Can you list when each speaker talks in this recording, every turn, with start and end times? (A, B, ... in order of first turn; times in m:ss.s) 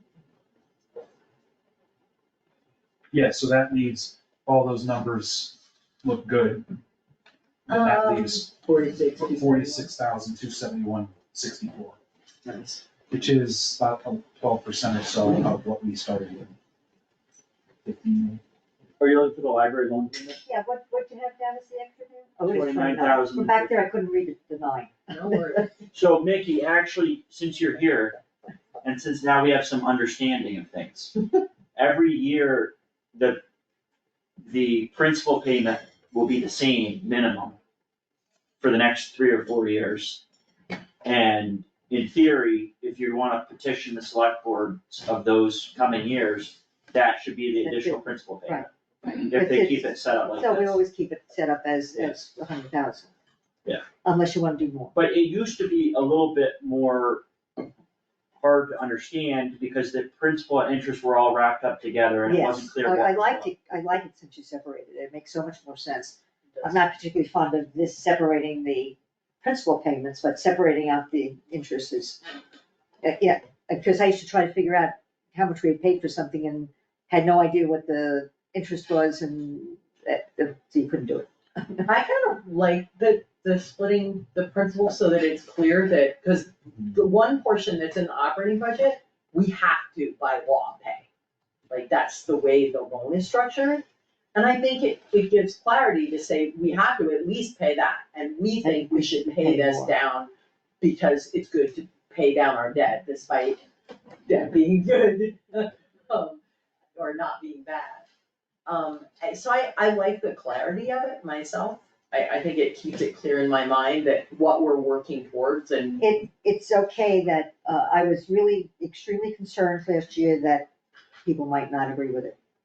0:03.1-0:06.7 A
0:07.7-0:08.5 A
0:07.7-0:09.9 B
0:09.2-0:12.0 A
0:12.4-0:12.8 B
0:13.1-0:16.5 A
0:17.8-0:18.4 A
0:19.0-0:20.4 C
0:20.4-0:25.6 D
0:22.5-0:23.8 C
0:25.1-0:25.7 B
0:25.9-0:28.2 C
0:28.8-0:31.1 C
0:31.8-0:33.4 C
0:34.4-0:37.6 C
0:38.6-0:40.2 C
0:41.0-0:50.8 C
0:47.6-0:53.1 D
0:54.0-0:55.0 D
0:54.9-0:57.2 C
0:58.4-1:03.5 C
1:02.3-1:12.2 D
1:13.0-1:21.9 D
1:21.9-1:31.1 B
1:31.7-1:43.6 B
1:38.6-1:39.9 D
1:44.3-1:46.4 B
1:47.0-1:48.1 B
1:48.7-1:56.0 B
1:56.0-2:00.7 D
2:01.2-2:02.4 D